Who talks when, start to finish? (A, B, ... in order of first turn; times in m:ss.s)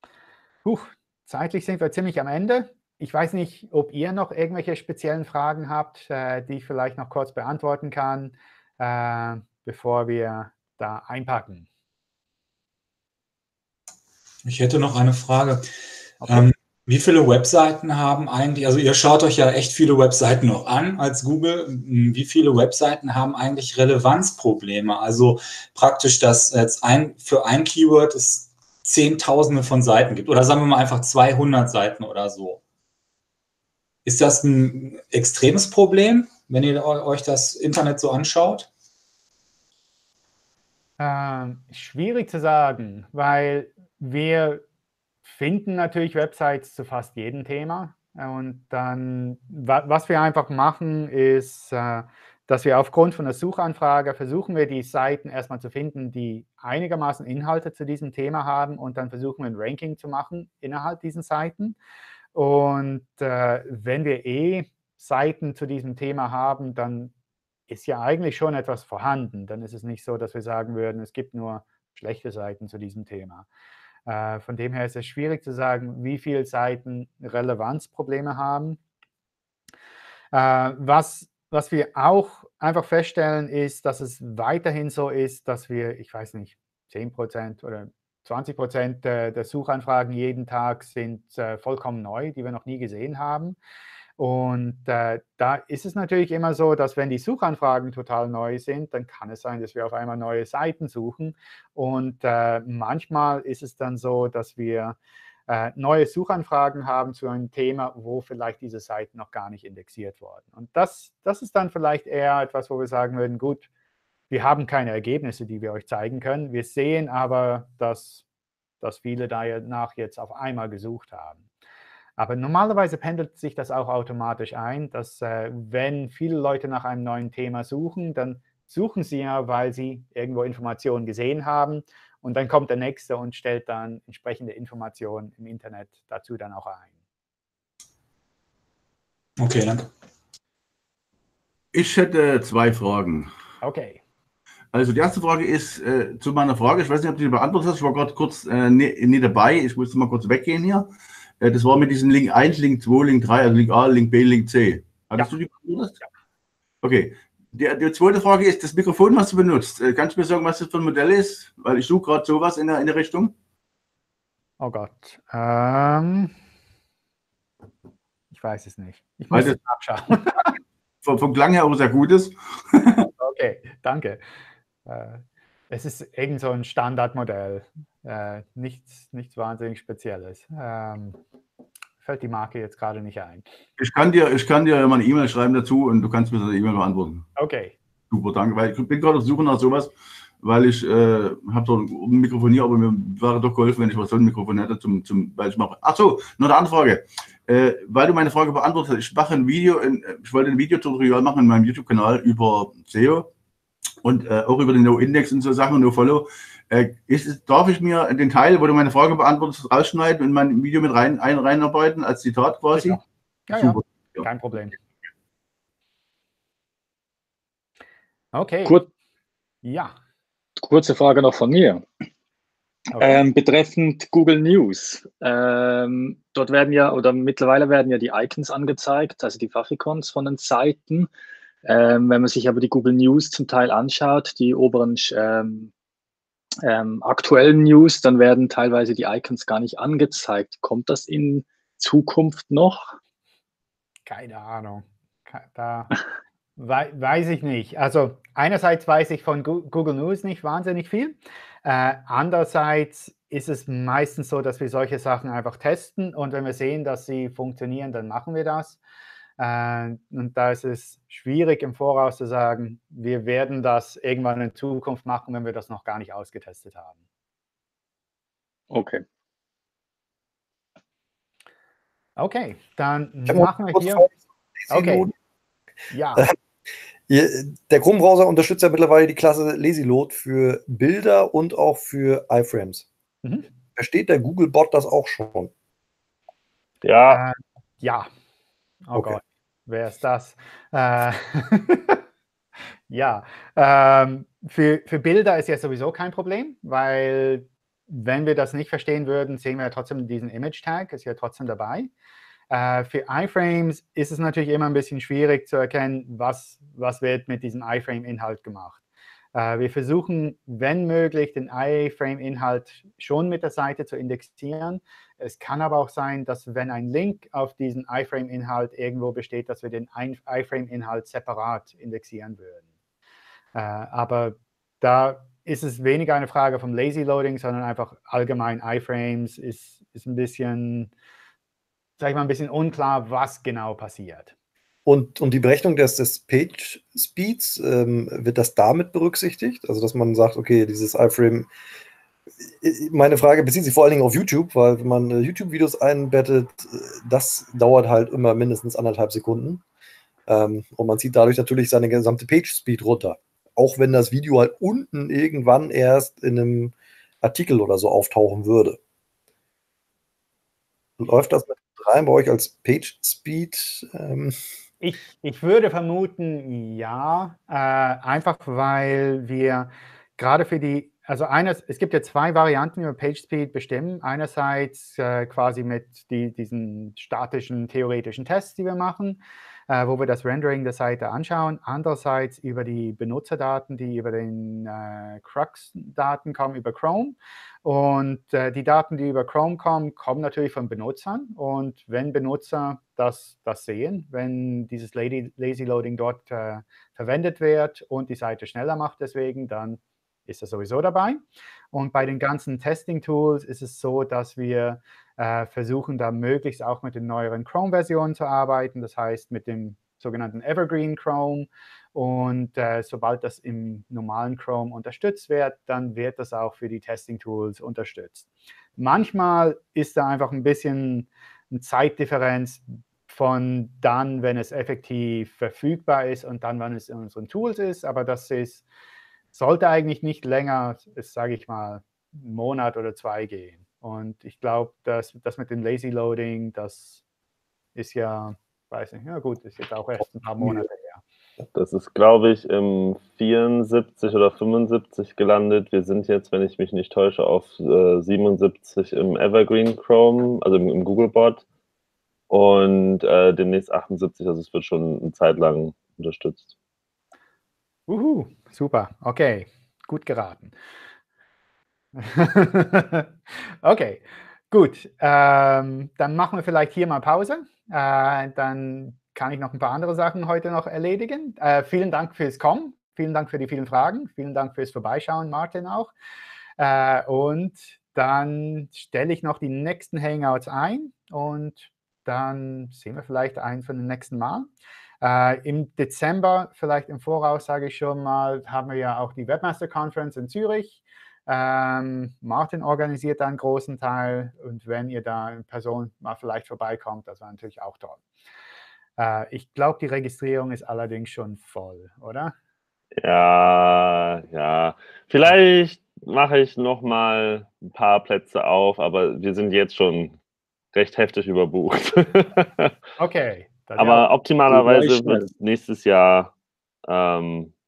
0:00.6-0:11.7 A
0:14.4-0:15.7 B
0:16.2-0:16.5 A
0:16.3-0:32.6 B
0:34.0-0:38.7 B
0:41.0-0:44.6 A
0:45.2-1:01.8 A
1:02.3-1:07.1 A
1:07.7-1:13.5 A
1:14.0-1:18.8 A
1:20.3-1:33.6 A
1:34.2-1:45.0 A
1:45.5-1:53.7 A
1:54.3-1:58.2 A
1:58.8-2:01.4 A
2:02.2-2:16.9 A
2:19.4-2:19.9 B
2:21.7-2:23.3 C
2:23.6-2:24.0 A
2:24.7-2:30.9 C
2:31.4-2:35.9 C
2:36.8-2:43.3 C
2:44.6-2:46.3 A
2:48.3-2:50.3 A
2:49.3-2:49.6 C
2:51.0-2:53.1 C
2:53.2-2:54.2 A
2:54.8-3:01.2 A
3:02.0-3:03.4 A
3:03.8-3:07.2 C
3:07.4-3:07.8 A
3:08.1-3:23.3 C
3:24.0-3:33.0 C
3:32.7-3:34.8 A
3:33.5-3:34.2 C
3:38.3-3:38.8 A
3:39.6-3:39.9 A
3:40.6-3:41.8 D
3:42.9-3:43.2 A
3:43.0-3:51.1 D
3:51.6-3:55.7 D
3:56.6-4:03.0 D
4:04.1-4:05.9 A
4:06.6-4:18.8 A
4:19.4-4:27.0 A
4:28.7-4:29.0 D
4:32.2-4:34.1 A
4:33.3-4:34.1 E
4:34.7-4:35.1 E
4:34.7-4:35.1 A
4:35.9-4:36.3 A
4:37.1-4:42.9 E
4:43.7-4:45.5 E
4:46.8-4:47.2 F
4:47.1-4:48.1 A
4:48.8-4:52.0 A
4:52.9-5:01.9 A
5:02.5-5:08.8 A
5:09.3-5:22.6 A
5:23.5-5:30.9 A
5:32.0-5:34.3 A
5:34.8-5:41.5 E
5:42.6-5:49.6 E
5:50.3-5:58.8 E
6:01.0-6:04.3 E
6:04.8-6:41.2 A
6:41.7-7:08.6 A
7:09.3-7:17.0 A
7:17.7-7:21.0 A
7:21.5-7:31.4 F
7:32.3-7:36.5 F
7:37.9-7:40.5 A
7:42.0-7:43.1 A
7:43.6-7:55.9 A
7:56.6-8:04.5 A
8:05.0-8:18.0 A
8:19.0-8:22.3 A
8:23.0-8:30.1 F
8:30.7-8:32.7 F
8:33.0-8:34.1 A
8:33.8-8:36.3 F
8:36.8-8:37.5 F